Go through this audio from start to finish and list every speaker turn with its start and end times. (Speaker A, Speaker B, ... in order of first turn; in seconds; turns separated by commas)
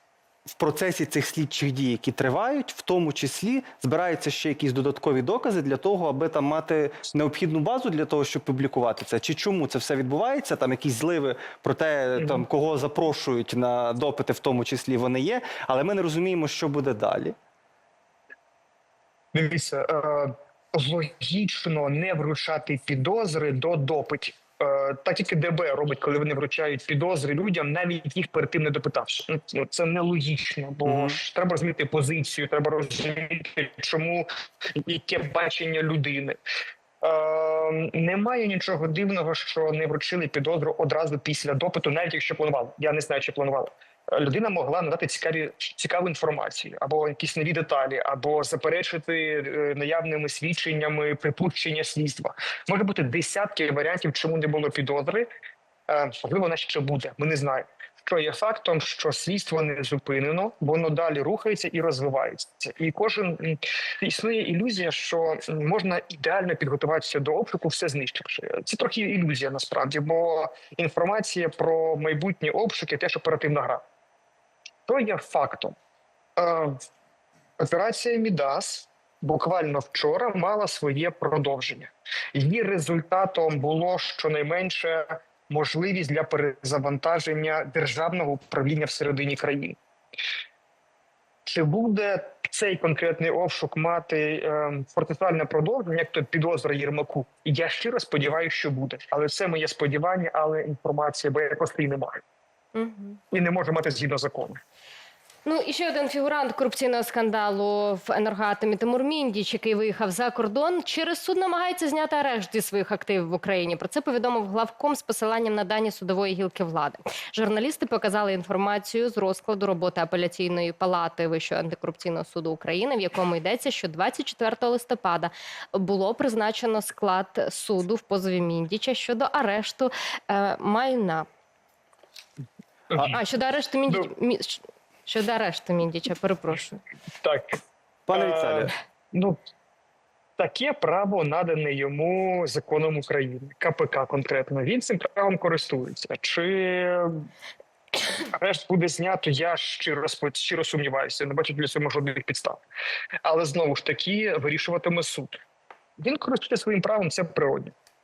Speaker A: 0.5-17.3, Speaker B: 12.2-12.4, Speaker B: 19.3-36.4, Speaker A: 30.9-31.2, Speaker B: 37.0-55.3, Speaker B: 55.9-73.8, Speaker B: 74.9-75.8, Speaker B: 76.3-76.8, Speaker B: 77.6-89.8, Speaker B: 91.4-102.2, Speaker C: 102.8-103.2, Speaker B: 103.3-104.6, Speaker C: 105.5-131.3, Speaker B: 132.9-133.2, Speaker C: 133.0-136.8, Speaker B: 137.2-137.6, Speaker A: 138.1-138.7, Speaker B: 138.1-139.4, Speaker B: 140.4-147.2, Speaker B: 148.3-152.6, Speaker B: 153.2-155.3, Speaker B: 156.0-157.7